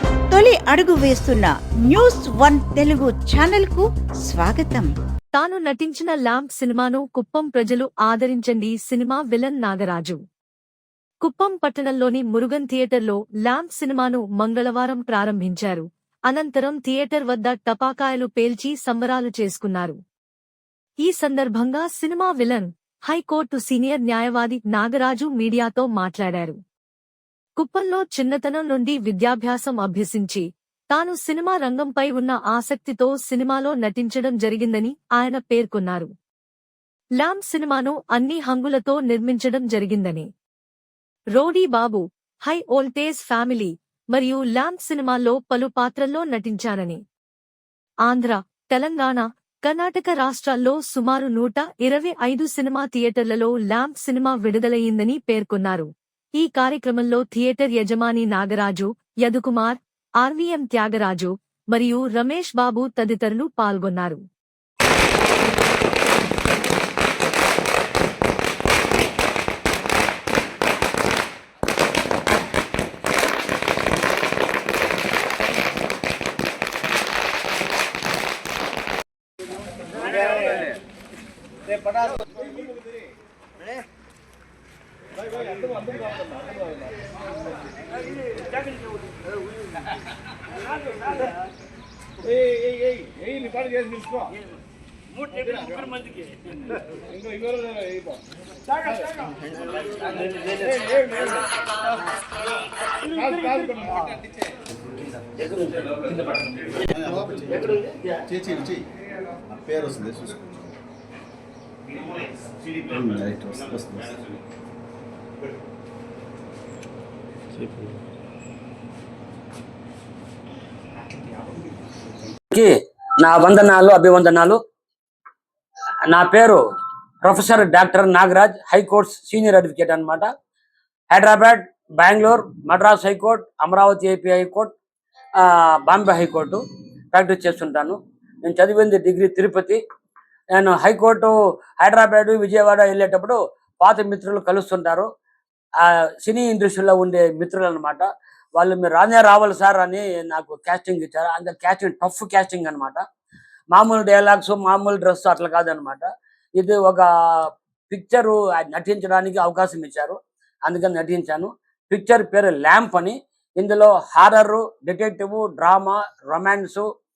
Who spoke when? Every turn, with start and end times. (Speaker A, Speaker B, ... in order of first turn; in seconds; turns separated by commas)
Speaker A: 0.3-4.9, Speaker B: 5.3-10.2, Speaker B: 11.2-20.0, Speaker B: 21.0-26.6, Speaker B: 27.6-36.1, Speaker B: 37.2-40.3, Speaker B: 41.3-47.0, Speaker B: 48.0-64.2, Speaker C: 85.8-86.2, Speaker C: 92.9-94.0, Speaker D: 95.1-96.8, Speaker D: 100.1-100.8, Speaker C: 103.5-103.9, Speaker D: 105.4-106.1, Speaker E: 106.9-107.7, Speaker E: 108.2-108.8, Speaker E: 109.5-110.4, Speaker E: 112.8-114.2, Speaker D: 122.5-124.6, Speaker D: 126.1-126.6, Speaker D: 127.2-130.3, Speaker D: 131.1-134.7, Speaker D: 135.4-136.6, Speaker D: 137.1-139.8, Speaker D: 140.5-145.1, Speaker D: 145.8-153.0, Speaker D: 153.7-166.8